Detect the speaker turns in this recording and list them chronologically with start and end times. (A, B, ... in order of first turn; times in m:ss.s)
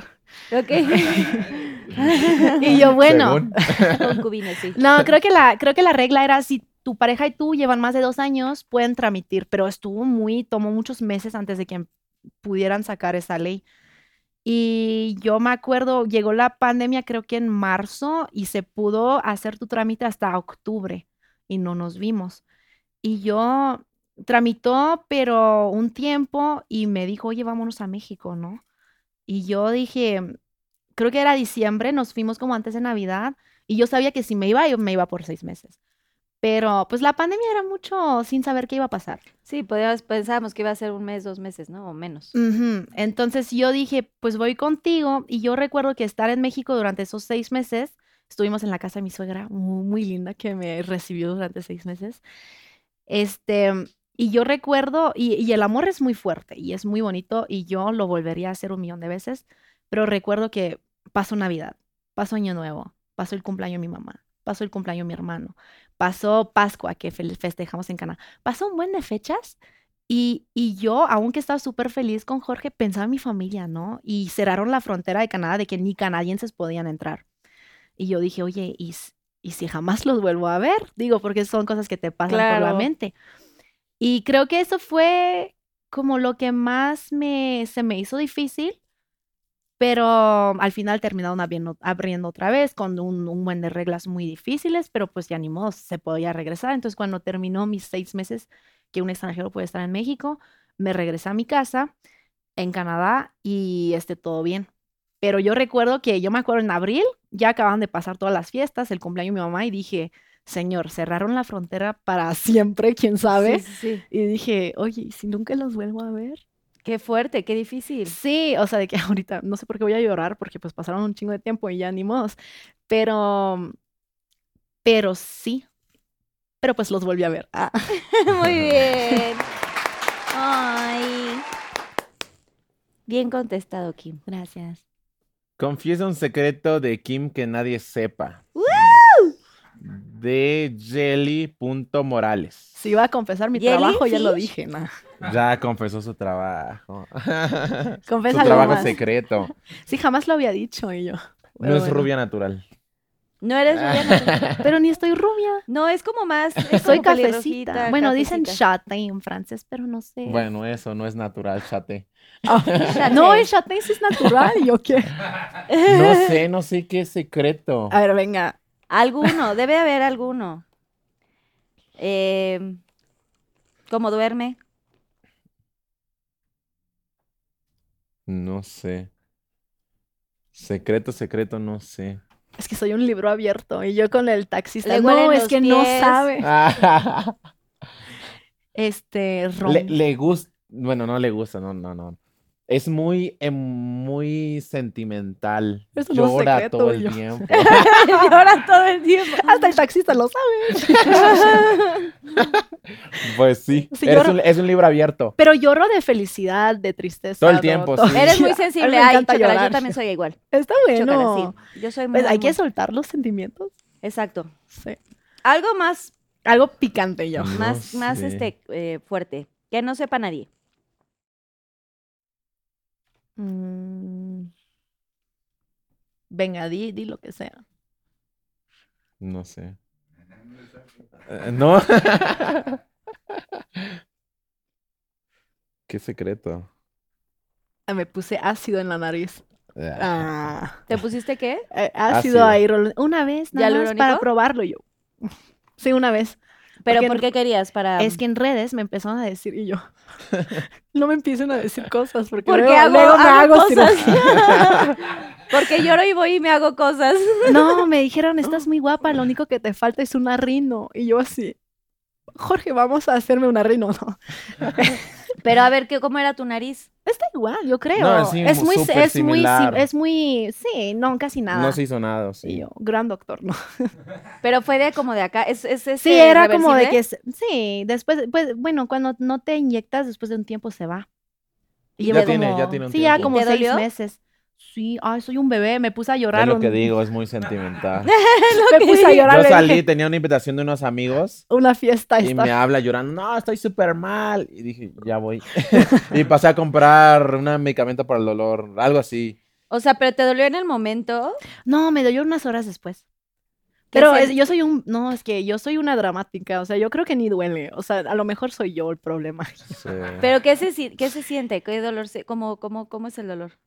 0:00.5-0:02.7 A
0:00.9-0:01.5 B
0:02.3-0:04.0 B
0:02.7-0:04.1 C
0:03.9-0:04.8 A
0:04.7-0:11.9 B
0:12.4-0:13.6 B
0:14.4-0:22.4 B
0:23.0-0:28.6 B
0:29.3-0:30.4 B
0:31.0-0:35.8 B
0:36.4-0:39.2 B
0:39.4-0:42.3 A
0:42.3-0:52.2 B
0:53.1-1:09.6 B
1:10.1-1:17.2 B
1:18.0-1:23.1 B
1:22.3-1:22.9 A
1:24.0-1:28.8 B
1:29.8-1:41.9 B
1:42.6-1:44.7 B
1:45.2-1:56.4 B
1:53.3-1:54.0 A
1:56.8-1:58.2 A
1:58.1-2:02.4 B
2:02.9-2:03.7 B
2:04.8-2:05.6 B
2:06.6-2:07.9 B
2:08.0-2:09.4 A
2:10.3-2:11.4 A
2:13.1-2:14.2 A
2:14.3-2:14.8 B
2:15.6-2:19.0 C
2:18.6-2:19.3 A
2:19.8-2:22.7 C
2:22.8-2:24.9 B
2:23.5-2:24.5 A
2:25.2-2:29.5 C
2:28.1-2:29.0 B
2:28.4-2:28.9 A
2:29.9-2:32.1 B
2:31.6-2:32.6 C
2:33.4-2:34.4 A
2:33.7-2:34.6 C
2:34.6-2:35.6 B
2:35.7-2:38.6 A
2:36.7-2:40.4 B
2:40.2-2:43.1 C
2:42.4-2:45.1 B
2:42.8-2:43.5 A
2:45.7-2:46.3 A
2:45.8-2:48.0 C
2:47.9-2:48.5 B
2:48.9-2:50.6 A
2:52.0-2:52.8 A
2:53.9-2:54.6 A
2:58.3-2:59.1 C
3:00.5-3:02.2 C
3:02.6-3:06.5 B
3:04.8-3:06.2 A
3:06.4-3:07.4 C
3:08.7-3:10.0 B
3:09.6-3:12.2 C
3:12.7-3:17.9 C
3:16.0-3:17.8 B
3:17.5-3:19.7 A
3:19.4-3:21.7 B
3:21.0-3:22.1 A
3:22.4-3:22.6 C
3:23.2-3:25.3 C
3:23.9-3:24.4 B
3:25.4-3:30.0 B
3:27.4-3:28.4 C
3:28.1-3:30.4 A
3:30.5-3:31.5 B
3:30.9-3:32.6 A
3:32.1-3:33.7 B
3:34.0-3:34.5 A
3:34.7-3:35.0 B
3:35.4-3:36.1 A
3:36.4-3:37.6 B
3:37.3-3:38.5 C
3:37.6-3:40.5 A
3:43.4-3:44.5 B
3:46.3-3:47.6 B
3:49.2-3:49.8 C
3:51.3-3:52.8 C
3:53.3-3:54.0 C
3:55.9-3:56.7 C
3:57.9-3:59.4 B
3:59.8-4:00.2 C
4:00.0-4:00.8 B
4:00.9-4:01.6 A
4:01.7-4:04.8 B
4:02.1-4:02.6 C
4:03.5-4:04.2 A
4:05.8-4:07.2 B
4:06.8-4:08.2 A
4:08.0-4:09.8 B
4:10.4-4:14.5 B
4:12.4-4:15.0 A
4:15.5-4:17.8 A
4:17.5-4:21.6 B
4:22.4-4:24.2 B
4:24.7-4:25.0 B
4:25.4-4:26.9 A
4:27.0-4:31.8 B
4:28.0-4:29.8 C
4:31.5-4:32.6 C
4:32.4-4:33.9 B
4:34.4-4:37.0 A
4:36.0-4:41.0 B
4:42.0-4:46.9 B
4:42.0-4:42.4 A
4:42.0-4:43.3 C
4:43.2-4:43.8 A
4:46.3-4:48.1 C
4:48.1-4:49.2 A
4:48.7-4:49.8 B
4:49.3-4:51.4 C
4:51.5-4:52.5 B
4:52.2-4:59.4 C
4:59.7-5:01.4 A
5:01.6-5:03.0 B
5:03.9-5:04.4 A
5:03.9-5:09.6 B
5:09.7-5:10.2 C
5:10.2-5:13.5 A